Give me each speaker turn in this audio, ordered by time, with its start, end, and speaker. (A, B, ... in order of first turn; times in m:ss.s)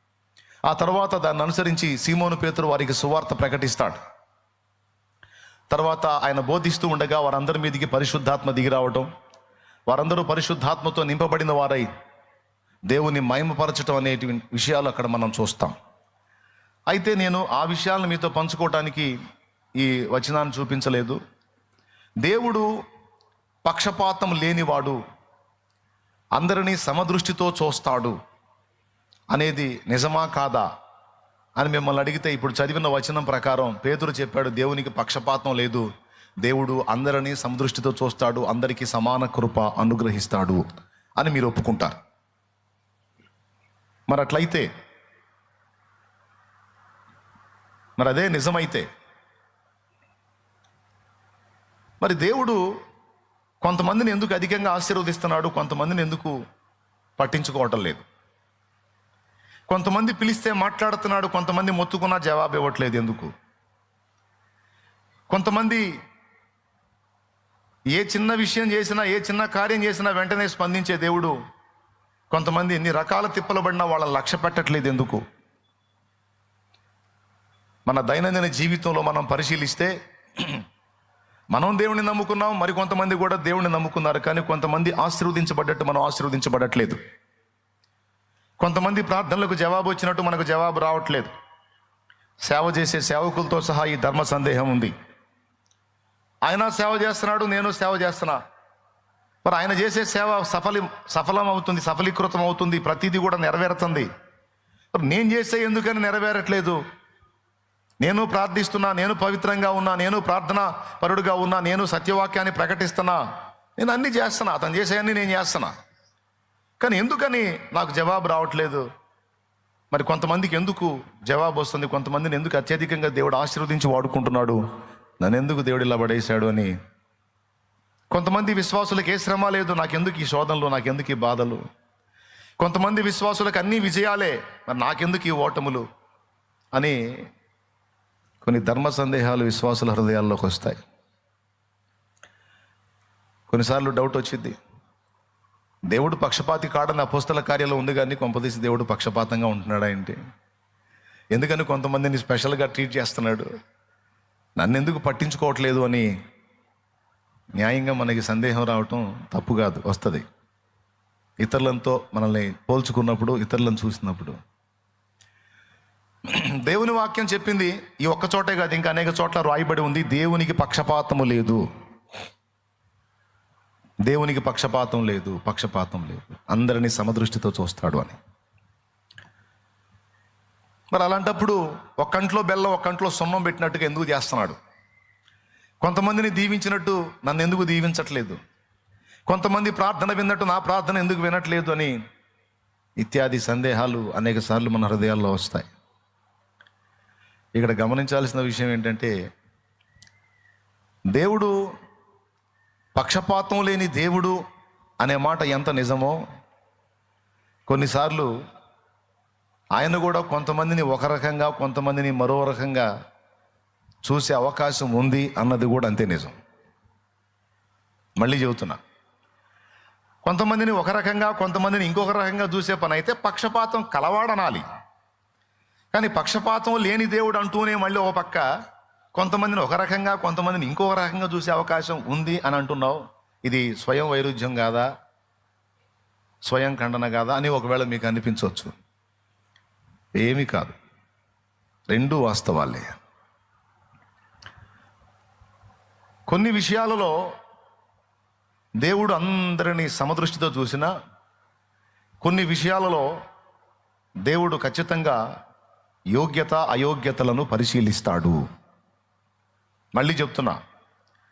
0:00.7-0:04.0 A
0:05.7-0:09.1 A
0:09.9-0:11.9 A
0:12.9-0:15.8 A
0:16.9-0:19.1 A
0:19.8-0:21.2 A
0:22.2-0:22.7 A
0:23.6-0:25.0 A
0:26.4-0:28.2 A
0:29.3-0:30.6 A
0:31.6-0:35.8 A
0:36.4-0:40.6 A
0:41.2-0:42.0 A
0:44.1-0:44.7 A
0:48.0-0:48.8 A
0:52.0-0:52.6 A
0:53.6-0:56.4 A
0:57.2-0:58.0 A
0:59.7-1:03.3 A
1:05.3-1:05.8 A
1:08.0-1:11.3 A
1:12.3-1:15.2 A
1:17.9-1:20.6 A
1:21.5-1:27.0 A
1:28.6-1:31.3 A
1:32.4-1:34.9 A
1:36.4-1:38.4 A
1:39.4-1:44.1 A
1:44.9-1:46.8 A
1:48.0-1:53.2 A
1:53.8-1:55.7 A
1:56.8-1:58.8 A
1:59.9-2:04.6 A
2:05.2-2:06.7 A
2:08.1-2:11.6 A
2:12.6-2:15.8 A
2:18.4-2:20.8 A
2:23.5-2:24.6 A
2:25.9-2:30.2 A
2:31.3-2:33.5 A
2:34.6-2:36.1 A
2:37.6-2:40.2 A
2:41.4-2:44.4 A
2:46.3-2:51.6 A
2:54.0-2:58.2 A
3:00.9-3:04.6 A
3:05.8-3:08.4 A
3:09.3-3:11.9 A
3:13.0-3:15.7 A
3:17.6-3:19.1 A
3:21.1-3:21.5 A
3:23.0-3:24.4 A
3:25.0-3:26.2 A
3:27.7-3:28.3 A
3:29.8-3:32.9 A
3:34.0-3:36.3 A
3:38.2-3:38.8 A
3:40.2-3:44.6 A
3:45.9-3:48.4 A
3:49.2-3:54.9 A
3:56.4-3:58.7 A
4:00.2-4:00.7 A
4:01.9-4:02.9 A
4:06.3-4:07.1 A
4:08.8-4:10.9 A
4:12.2-4:13.1 A
4:14.3-4:15.2 A
4:16.1-4:18.4 A
4:19.9-4:20.6 A